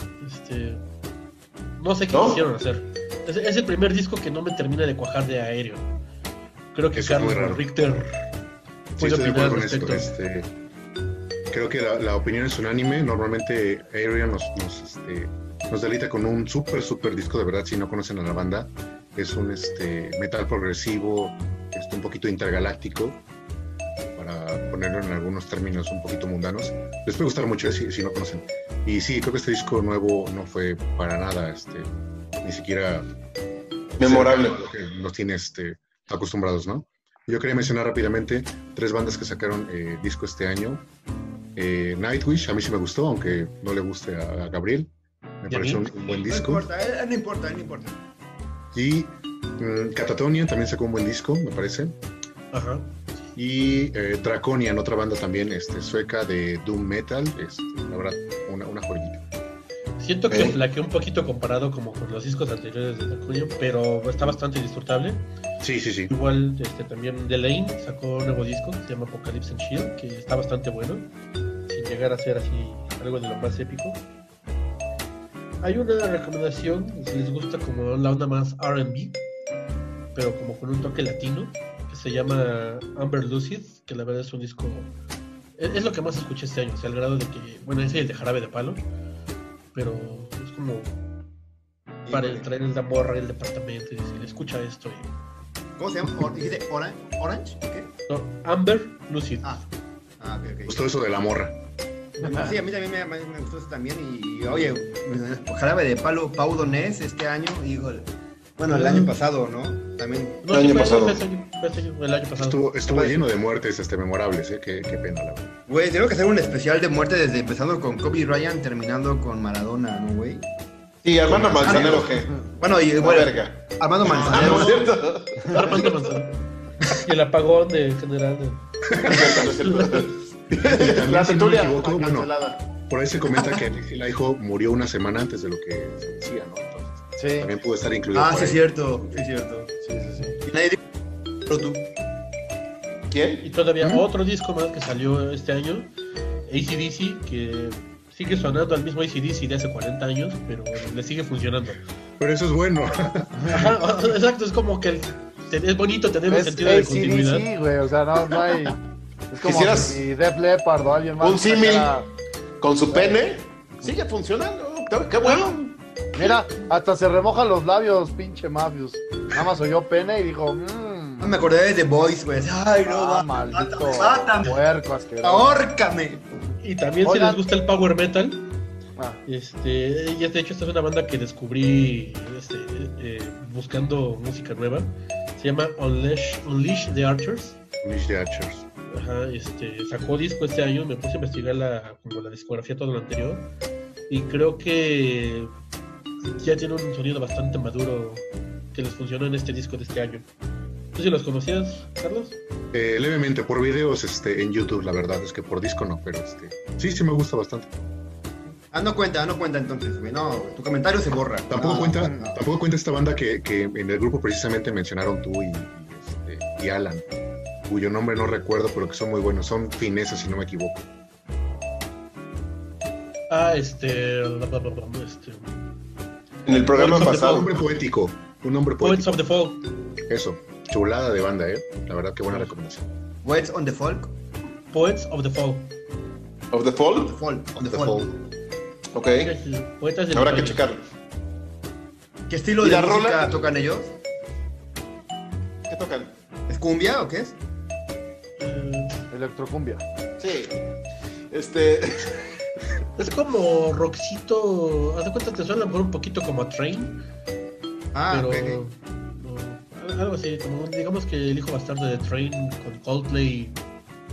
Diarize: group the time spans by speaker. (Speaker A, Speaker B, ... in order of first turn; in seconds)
Speaker A: 0.2-0.8, 1.8-5.9, 6.7-8.1, 9.0-10.1, 45.5-45.9, 52.5-53.0, 60.0-65.2, 66.1-71.1, 71.7-74.0, 75.6-79.2, 80.1-84.9, 85.6-88.9, 89.7-91.0, 92.1-95.1, 98.1-99.6, 108.7-109.1, 110.4-112.6, 125.4-126.3, 127.0-130.1, 143.4-145.9, 146.5-151.8, 153.4-157.5, 176.6-178.4, 179.2-187.6, 188.9-193.5, 194.1-195.5, 196.2-200.3, 200.9-202.4, 223.3-225.5, 226.7-227.5, 228.8-229.6, 234.7-235.7, 239.2-240.7, 248.4-249.0, 253.0-257.0, 258.1-263.6
Speaker B: 2.1-2.4, 34.0-34.6, 60.3-60.6, 110.5-111.2, 121.0-125.9, 128.9-132.6, 143.1-143.4, 159.4-160.0, 161.2-162.0, 162.6-165.7, 226.4-227.6, 236.5-237.2, 238.9-239.3, 240.1-240.8, 242.6-243.3, 245.7-246.1, 250.2-250.6, 251.3-252.3
Speaker C: 6.9-7.6, 8.9-10.5, 11.5-23.2, 24.1-31.9, 32.4-33.1, 33.9-40.8, 41.5-44.9, 45.4-46.7, 48.7-52.0, 53.4-59.2, 65.6-66.1, 100.7-101.5, 112.4-115.5, 121.3-122.2, 128.9-129.3, 130.5-132.3, 132.9-138.6, 143.8-144.1, 152.2-153.7, 187.8-188.7, 202.7-207.8, 211.5-217.1, 217.7-220.9, 226.8-229.2, 230.1-232.9, 237.7-238.1
Speaker D: 46.1-48.0, 92.0-92.5, 95.8-97.9, 100.2-100.8, 102.2-110.4, 115.7-120.5, 121.6-125.1, 138.1-139.7, 140.4-140.8, 141.4-141.9, 171.2-174.6, 175.2-176.3, 208.7-212.4, 233.2-234.2, 236.9-238.1, 242.3-243.9, 246.5-247.4, 257.9-258.6
Speaker E: 137.2-137.5, 139.8-140.4, 156.3-158.8, 159.3-162.1, 162.9-163.2, 166.1-171.3, 172.8-175.6, 177.0-177.4, 249.1-249.8